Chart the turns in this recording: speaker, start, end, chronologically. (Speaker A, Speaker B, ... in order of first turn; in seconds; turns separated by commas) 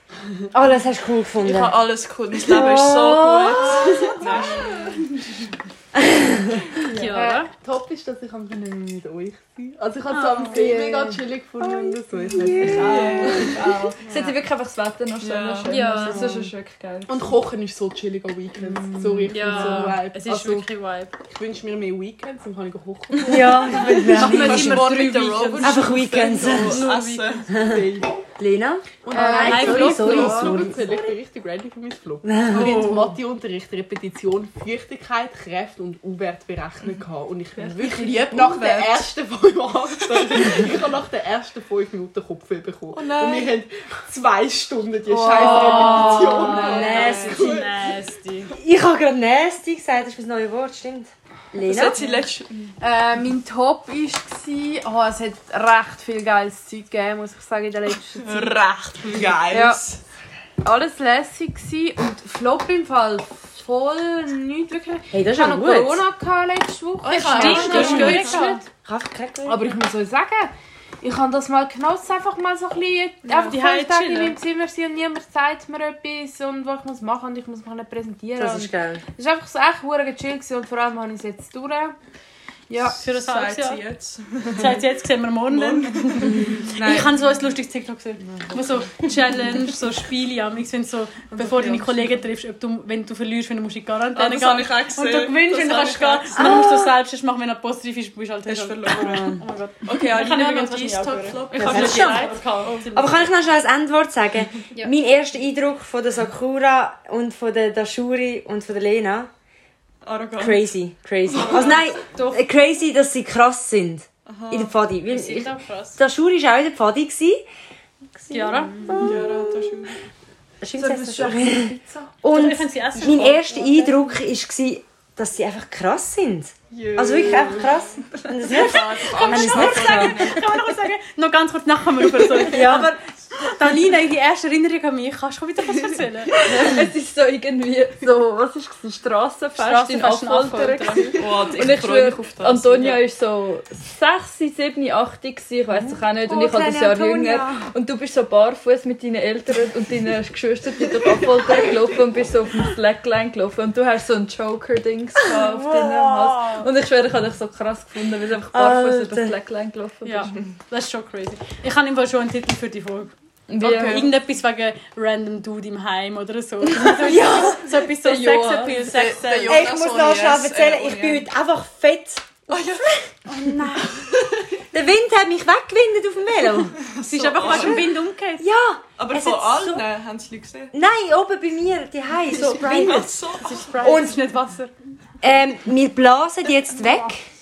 Speaker A: 0.5-1.8, Speaker B: 1.4-5.1, Speaker A: 2.4-4.4, Speaker C: 4.2-4.6, Speaker A: 6.0-6.7, Speaker C: 6.8-7.5, Speaker D: 7.0-7.4, Speaker E: 7.5-14.3, Speaker C: 10.1-10.7, Speaker D: 10.4-11.9, Speaker A: 12.3-13.4, Speaker D: 12.7-13.7, Speaker B: 12.8-13.6, Speaker F: 13.0-17.4, Speaker B: 15.2-15.8, Speaker C: 15.7-16.5, Speaker E: 17.1-20.7, Speaker D: 18.7-19.6, Speaker C: 19.3-21.1, Speaker E: 21.3-24.0, Speaker A: 23.2-24.9, Speaker C: 23.8-27.5, Speaker B: 24.1-27.7, Speaker A: 25.6-26.8, Speaker E: 27.5-28.1, Speaker A: 28.4-31.1, Speaker E: 29.0-48.0, Speaker C: 29.1-30.7, Speaker D: 29.1-30.5, Speaker A: 32.2-33.1, Speaker D: 37.7-39.0, Speaker B: 40.1-40.4, Speaker B: 42.9-43.6, Speaker D: 45.1-47.0, Speaker A: 45.4-47.6, Speaker C: 45.5-48.5, Speaker B: 45.7-46.1, Speaker A: 48.5-52.0, Speaker B: 51.6-52.7, Speaker D: 52.8-58.6, Speaker B: 58.2-60.0, Speaker D: 59.5-59.8, Speaker D: 60.6-68.6, Speaker A: 65.1-66.0, Speaker B: 67.0-68.6, Speaker C: 67.2-68.7, Speaker A: 67.5-68.3, Speaker A: 68.8-69.7, Speaker D: 69.5-82.0, Speaker B: 73.3-73.6, Speaker C: 73.3-74.4, Speaker A: 78.4-79.0, Speaker D: 82.7-83.0, Speaker C: 83.0-83.8, Speaker B: 83.0-87.2, Speaker C: 84.5-103.1, Speaker B: 91.4-92.2, Speaker B: 94.1-96.6, Speaker A: 96.3-96.9, Speaker B: 98.5-103.1, Speaker A: 99.0-99.4, Speaker A: 101.5-102.3, Speaker A: 102.9-109.3, Speaker B: 110.0-110.7, Speaker A: 110.4-117.4, Speaker B: 111.3-112.0, Speaker C: 111.5-112.5, Speaker B: 114.3-114.7, Speaker C: 115.1-116.0, Speaker A: 118.2-119.9, Speaker C: 118.3-119.0, Speaker B: 119.0-120.0, Speaker A: 120.6-130.4, Speaker B: 120.8-122.1, Speaker C: 122.3-123.3, Speaker B: 122.9-123.9, Speaker B: 126.7-130.8, Speaker C: 129.1-136.4, Speaker A: 132.5-132.9, Speaker F: 136.4-160.4, Speaker C: 139.6-141.2, Speaker B: 141.2-143.0, Speaker A: 145.9-147.6, Speaker A: 155.2-156.7, Speaker A: 158.5-159.4, Speaker C: 160.0-163.1, Speaker F: 163.5-164.1, Speaker B: 163.6-164.1, Speaker C: 163.7-169.7, Speaker A: 167.0-167.6, Speaker F: 167.9-169.0, Speaker B: 168.8-171.3, Speaker A: 169.5-172.5, Speaker B: 172.5-173.1, Speaker C: 173.3-174.0, Speaker B: 173.8-174.4, Speaker A: 174.7-176.8, Speaker B: 176.7-178.0, Speaker C: 177.0-178.5, Speaker A: 177.4-179.9, Speaker B: 179.0-180.7, Speaker A: 180.7-183.2, Speaker B: 182.3-183.8, Speaker C: 182.3-184.7, Speaker A: 183.8-184.2, Speaker A: 185.2-187.2